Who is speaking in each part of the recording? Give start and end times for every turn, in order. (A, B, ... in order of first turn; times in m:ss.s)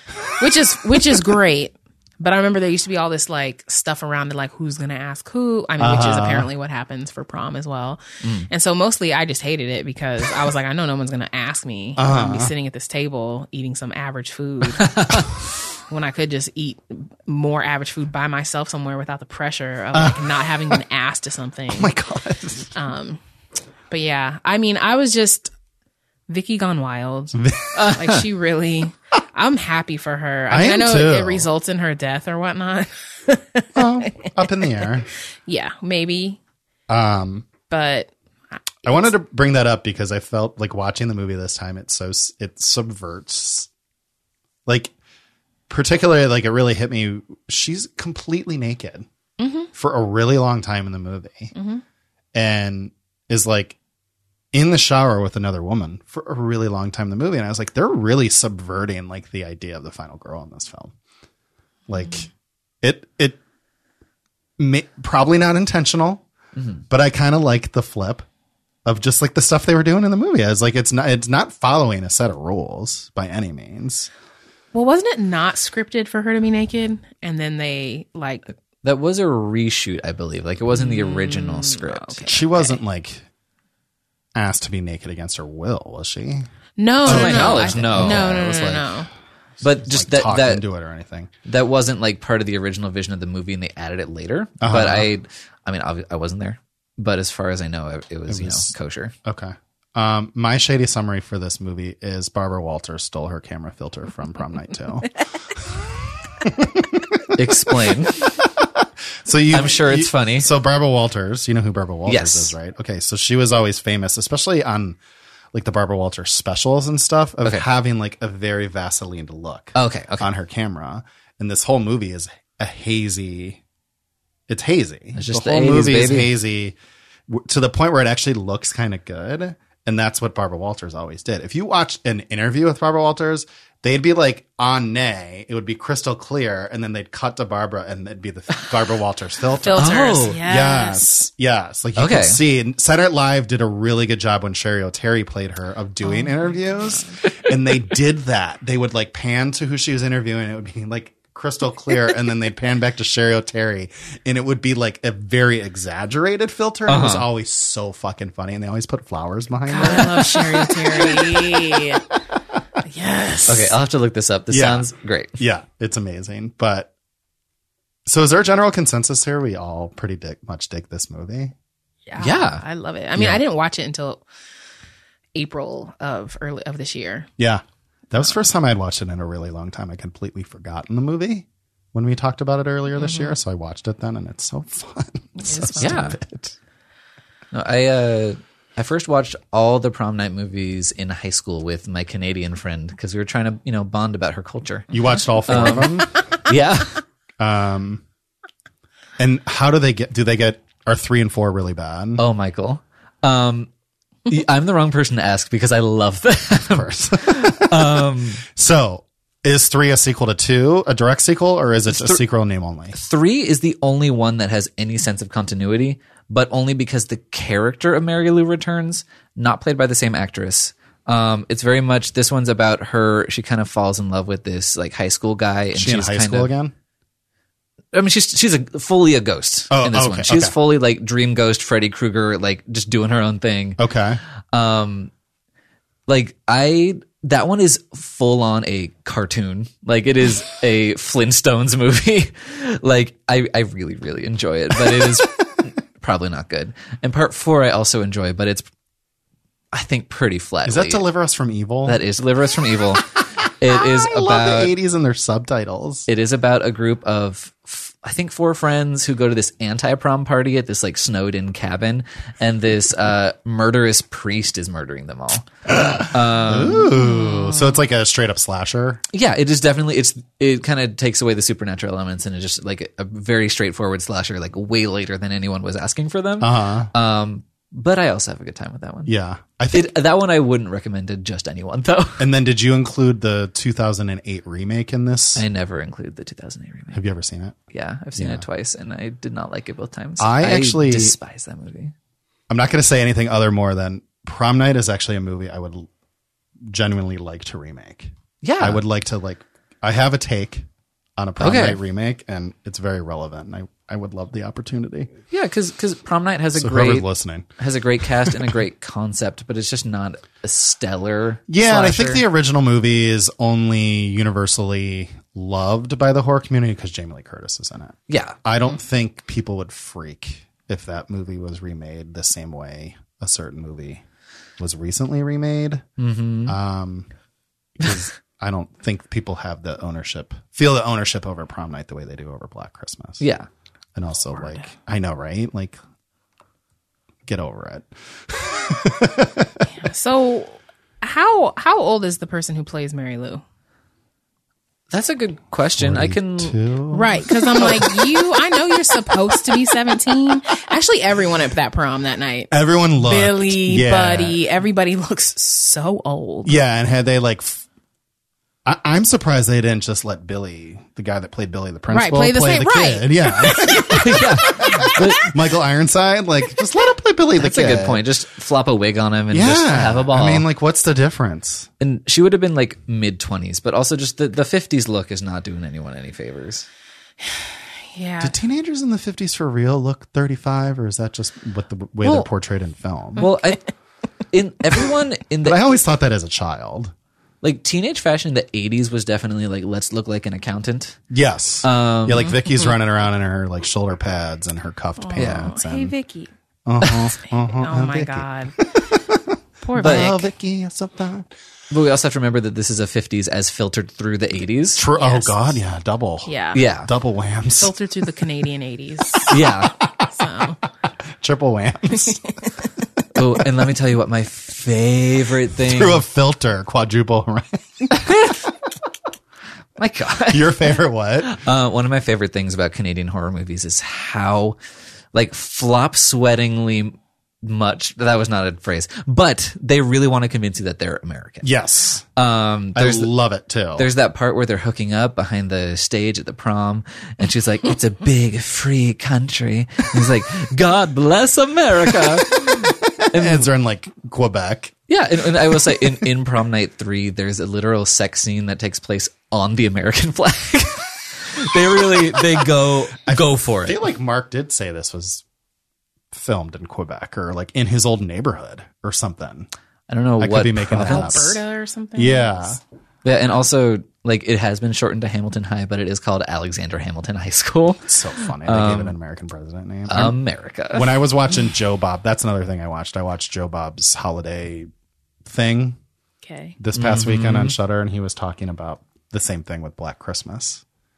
0:00.2-0:01.4 A
0:00.4-0:15.2 B
0:05.8-0:06.5 A
0:12.0-0:12.5 A
0:14.8-0:15.3 C
0:15.9-0:21.9 B
0:19.9-0:20.7 A
0:21.7-0:22.7 A
0:22.7-0:23.2 B
0:23.9-0:25.5 B
0:26.3-0:34.9 B
0:27.3-0:27.9 A
0:27.8-0:28.1 C
0:30.5-0:31.5 A
0:33.8-0:35.1 A
0:35.5-0:36.4 B
0:36.9-0:37.5 A
0:37.7-0:38.1 B
0:38.8-0:39.1 B
0:38.8-0:43.7 A
0:44.6-0:44.9 A
0:45.7-0:49.1 A
0:49.4-0:49.7 B
0:49.7-0:51.5 A
0:51.5-0:51.8 B
0:52.3-0:53.8 A
0:54.5-1:00.9 A
1:01.9-1:02.3 A
1:02.8-1:03.4 A
1:04.6-1:06.2 A
1:06.6-1:06.8 C
1:06.9-1:08.3 A
1:08.9-1:14.1 A
1:14.7-1:18.4 B
1:18.8-1:22.3 C
1:20.7-1:22.8 B
1:22.3-1:23.3 A
1:24.4-1:26.5 A
1:26.8-1:29.1 B
1:27.0-1:28.8 A
1:27.0-1:28.9 C
1:29.6-1:30.6 C
1:29.6-1:31.3 A
1:31.5-1:39.1 C
1:34.6-1:35.1 A
1:38.3-1:38.7 A
1:39.2-1:55.0 A
1:47.3-1:48.4 C
1:49.5-1:50.5 C
1:52.1-1:52.5 C
1:55.5-2:03.6 A
1:59.8-2:00.3 C
2:04.5-2:06.8 A
2:05.1-2:06.3 C
2:07.3-2:42.0 A
2:19.6-2:21.1 B
2:19.8-2:20.4 C
2:22.0-2:22.4 C
2:26.0-2:27.2 B
2:36.9-2:37.3 C
2:39.6-2:42.0 B
2:42.8-2:43.8 B
2:43.5-2:45.3 C
2:44.5-2:46.9 A
2:48.1-2:51.5 A
2:52.1-2:54.2 B
2:52.2-2:52.6 C
2:55.4-2:57.3 B
2:57.4-3:06.6 A
3:02.9-3:03.4 B
3:05.4-3:06.2 B
3:05.8-3:06.2 C
3:07.5-3:14.9 C
3:14.9-3:16.2 A
3:15.5-3:17.0 C
3:17.4-3:18.0 A
3:19.2-3:22.2 A
3:22.2-3:23.7 C
3:24.3-3:28.4 C
3:26.7-3:33.0 A
3:31.9-3:32.2 C
3:32.9-3:46.5 C
3:45.7-3:46.7 A
3:47.9-3:53.8 C
3:49.7-3:50.6 A
3:53.8-3:54.2 A
3:54.5-3:55.1 C
3:56.1-4:08.6 C
4:09.7-4:11.0 C
4:10.6-4:12.0 A
4:11.9-4:14.7 C
4:13.6-4:16.1 A
4:16.1-4:26.9 C
4:25.7-4:29.0 A
4:27.0-4:27.7 B
4:29.1-4:39.1 C
4:36.4-4:36.9 A
4:39.1-4:39.9 A
4:39.7-4:42.3 C
4:42.2-4:45.4 A
4:45.4-4:47.0 C
4:46.9-4:47.6 A
4:47.7-4:51.9 C
4:48.2-4:48.5 A
4:50.2-4:51.1 A
4:52.5-4:55.9 A
4:56.7-5:00.6 A
4:58.4-4:58.8 C
5:01.2-5:05.1 A
5:01.4-5:01.8 C
5:05.3-5:07.1 C
5:06.6-5:07.5 A
5:07.6-5:12.2 C
5:08.2-5:08.6 A
5:11.5-5:24.0 A
5:18.1-5:18.4 C
5:24.6-5:25.8 A
5:26.0-5:26.6 C
5:26.5-5:27.1 A
5:27.8-5:33.2 A
5:33.2-5:33.5 C
5:34.0-5:35.8 A
5:34.4-5:34.6 B
5:37.3-5:39.6 A
5:39.7-5:43.4 B
5:44.9-5:46.6 C
5:45.8-5:49.6 A
5:46.9-5:56.6 B
5:52.5-5:54.4 A
5:56.4-5:57.6 A
5:58.6-6:08.0 A
6:01.9-6:04.2 B
6:03.8-6:05.4 C
6:07.4-6:10.4 C
6:09.3-6:11.7 A
6:11.8-6:16.7 C
6:17.2-6:18.4 B
6:18.2-6:23.3 A
6:22.0-6:22.3 C
6:23.2-6:23.7 C
6:24.3-6:25.6 C
6:25.4-6:26.9 A
6:27.4-6:31.0 C
6:31.1-6:36.0 A
6:31.6-6:32.5 C
6:35.0-6:36.3 B
6:35.2-6:35.5 C
6:36.6-6:38.3 A
6:37.2-6:38.6 B
6:39.6-6:40.3 B
6:39.8-6:41.3 A
6:39.8-6:40.1 C
6:41.7-6:44.8 C
6:44.8-6:46.3 A
6:44.9-6:45.4 B
6:46.2-6:46.6 B
6:46.5-6:46.9 C
6:46.8-6:47.7 A
6:47.5-6:49.4 B
6:49.3-6:49.7 C
6:50.1-6:50.6 B
6:51.2-6:52.4 A
6:52.2-6:52.5 B
6:53.1-6:56.0 C
6:55.6-6:58.0 A
6:58.0-6:58.4 C
6:59.8-7:04.6 C
7:00.3-7:01.3 A
7:05.1-7:11.5 C
7:11.4-7:12.0 A
7:12.2-7:13.1 C
7:12.8-7:13.9 A
7:13.8-7:23.5 C
7:22.0-7:24.7 A
7:24.9-7:33.8 C
7:32.2-7:32.5 A
7:33.1-7:35.2 A
7:36.1-7:39.5 A
7:39.9-7:41.4 C
7:40.2-7:41.4 A
7:40.8-7:42.6 B
7:42.0-7:42.6 A
7:43.0-7:49.0 C
7:47.8-7:50.2 A
7:49.9-7:51.0 C
7:50.7-7:54.7 A
7:55.2-7:55.8 A
7:56.2-7:56.6 B
7:56.6-8:00.6 A
7:56.8-7:57.6 C